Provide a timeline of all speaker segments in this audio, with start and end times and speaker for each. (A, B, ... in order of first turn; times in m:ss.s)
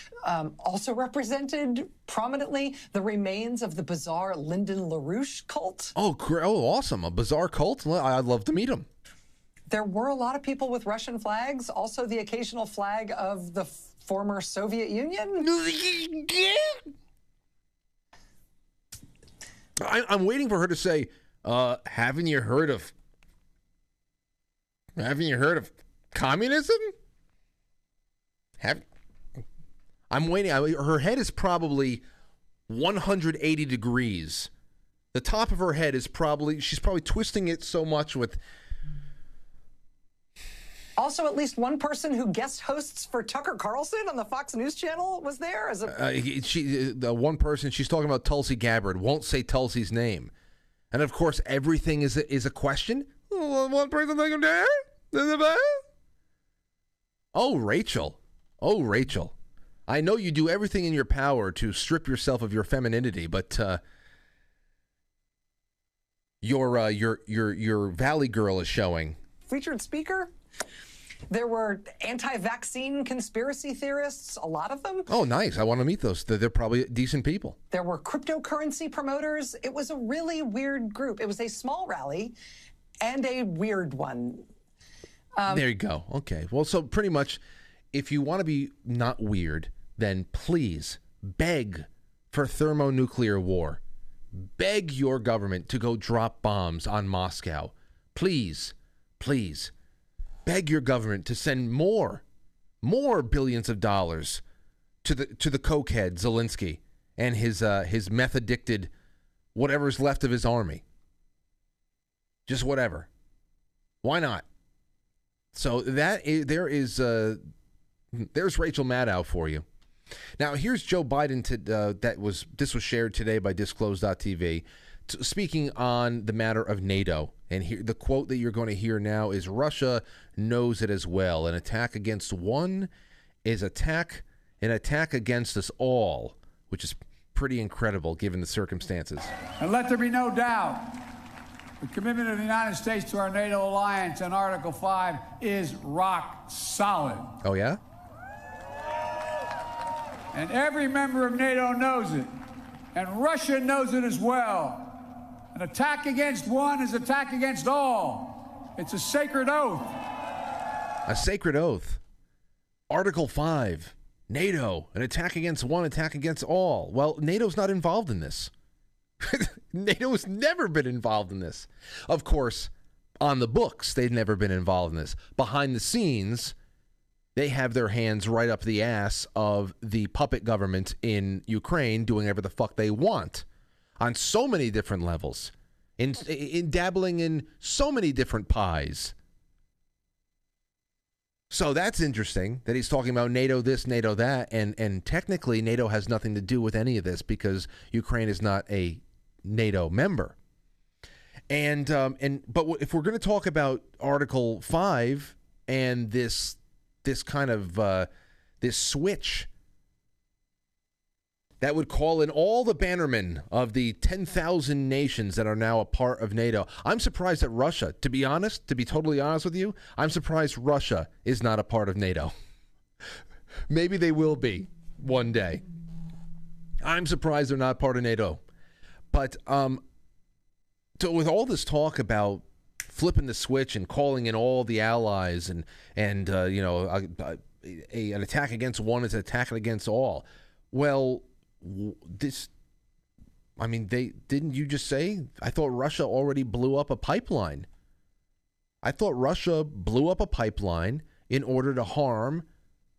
0:00.2-0:05.9 A
0:06.0-0:08.9 B
0:09.7-0:15.5 A
0:15.4-0:16.8 B
0:19.8-0:22.9 B
0:25.0-0:26.9 B
0:30.1-0:32.0 B
0:32.7-0:34.5 B
0:35.1-0:38.4 B
0:41.0-0:46.0 A
0:45.8-0:50.3 B
0:50.9-0:55.8 B
0:57.3-0:59.3 B
0:59.9-1:03.8 B
1:06.4-1:09.2 B
1:09.4-1:10.3 A
1:11.3-1:15.1 A
1:15.1-1:17.6 B
1:17.7-1:22.3 A
1:23.0-1:24.5 A
1:25.4-1:25.7 A
1:25.5-1:27.4 B
1:27.9-1:33.8 B
1:34.3-1:39.7 B
1:40.4-1:42.2 B
1:42.8-1:44.4 B
1:45.0-1:48.9 B
1:49.5-1:50.8 B
1:52.5-1:53.1 B
1:54.0-1:54.4 B
1:55.5-1:57.4 B
1:58.1-1:59.6 B
2:00.4-2:12.9 B
2:13.4-2:19.3 B
2:19.6-2:21.0 C
2:21.8-2:27.3 C
2:27.4-2:27.8 B
2:30.3-2:32.4 C
2:32.9-2:40.0 C
2:41.1-2:42.0 B
2:42.9-2:48.5 B
2:49.2-2:56.5 B
2:57.4-3:03.4 B
3:04.0-3:09.1 B
3:11.5-3:20.4 B
3:21.5-3:28.1 B
3:28.6-3:29.5 B
3:31.6-3:42.3 B
3:43.7-3:45.6 B
3:46.8-3:48.4 B
3:49.1-3:49.8 B
3:51.0-4:02.5 B
4:03.6-4:07.7 B
4:08.8-4:12.4 B